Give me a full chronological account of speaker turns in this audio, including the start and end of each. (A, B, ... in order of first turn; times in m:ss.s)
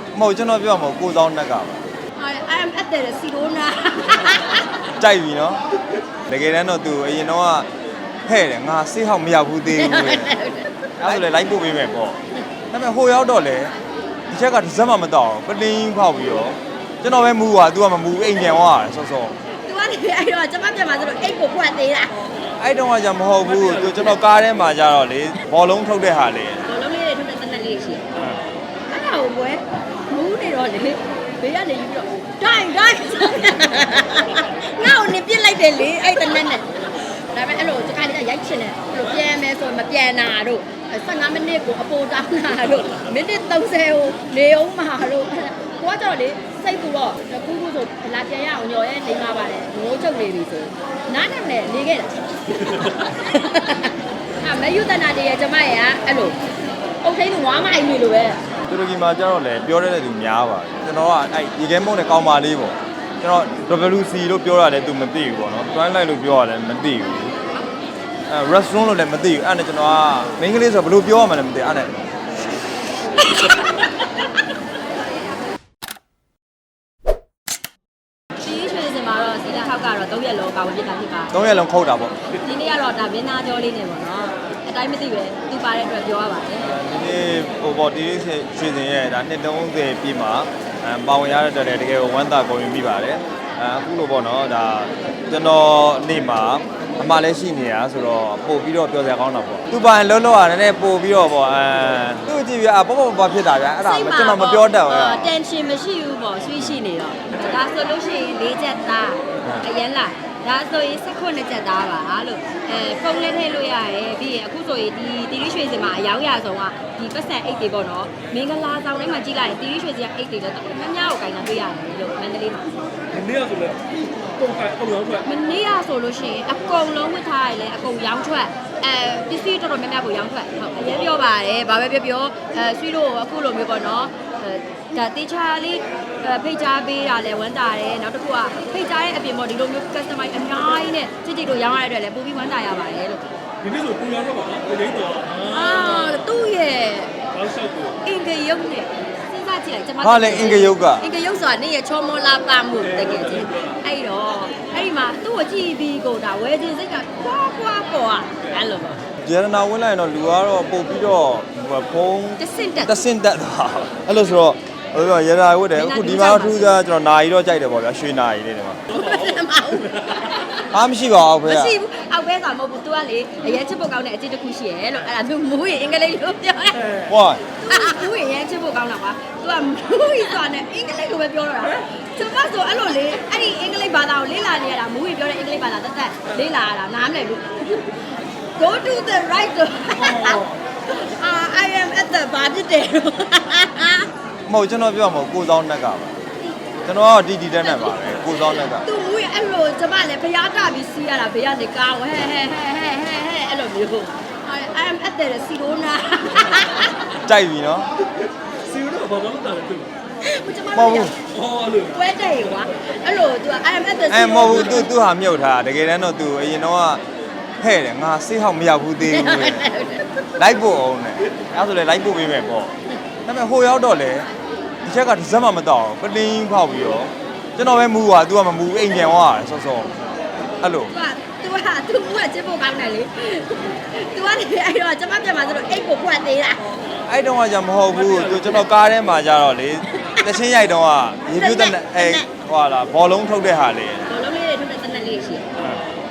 0:00.1-0:01.8 A
0:02.2-0:04.7 B
0:05.0-0:05.6 A
0:06.3-0:07.7 A
0:08.3-0:10.3 A
0:09.7-0:10.7 B
0:11.0-0:12.2 A
0:12.7-0:13.7 A
0:14.3-0:19.4 A
0:19.6-0:22.3 B
0:22.6-0:26.6 A
0:26.6-0:28.0 B
0:28.9-0:56.4 B
0:57.0-0:58.4 B
0:58.7-1:07.4 A
1:08.3-1:11.9 A
1:13.2-1:14.1 B
1:18.4-1:21.3 B
1:21.3-1:22.2 A
1:22.3-1:26.7 B
1:26.6-1:45.3 A
1:43.8-2:02.7 B
2:03.1-2:05.2 C
2:05.2-2:23.3 B
2:23.6-2:26.1 C
2:25.4-2:27.1 B
2:27.4-2:27.9 C
2:28.0-2:39.0 B
2:30.0-2:31.0 A
2:39.2-2:48.8 A
2:42.4-2:43.0 B
2:45.7-2:46.8 B
2:48.9-2:50.7 B
2:49.1-2:49.4 C
2:50.7-2:51.8 A
2:51.4-2:56.8 B
2:57.1-2:57.5 A
2:57.6-3:08.0 B
3:08.6-3:14.1 B
3:14.5-3:16.2 A
3:16.8-3:18.9 A
3:17.6-3:27.0 B
3:27.2-3:27.9 A
3:28.6-3:29.9 C
3:30.2-3:31.3 B
3:30.7-3:31.1 A
3:31.3-3:32.0 C
3:31.8-3:34.9 B
3:34.1-3:37.0 A
3:37.6-3:39.7 A
3:39.0-3:40.1 B
3:40.4-3:42.7 A
3:43.2-3:44.3 A
3:44.8-3:50.0 A
3:50.6-3:50.9 A
3:50.9-3:56.7 B
3:57.1-4:04.1 A
3:58.1-3:58.4 C
4:00.0-4:00.2 B
4:01.3-4:02.3 B
4:04.1-4:05.5 B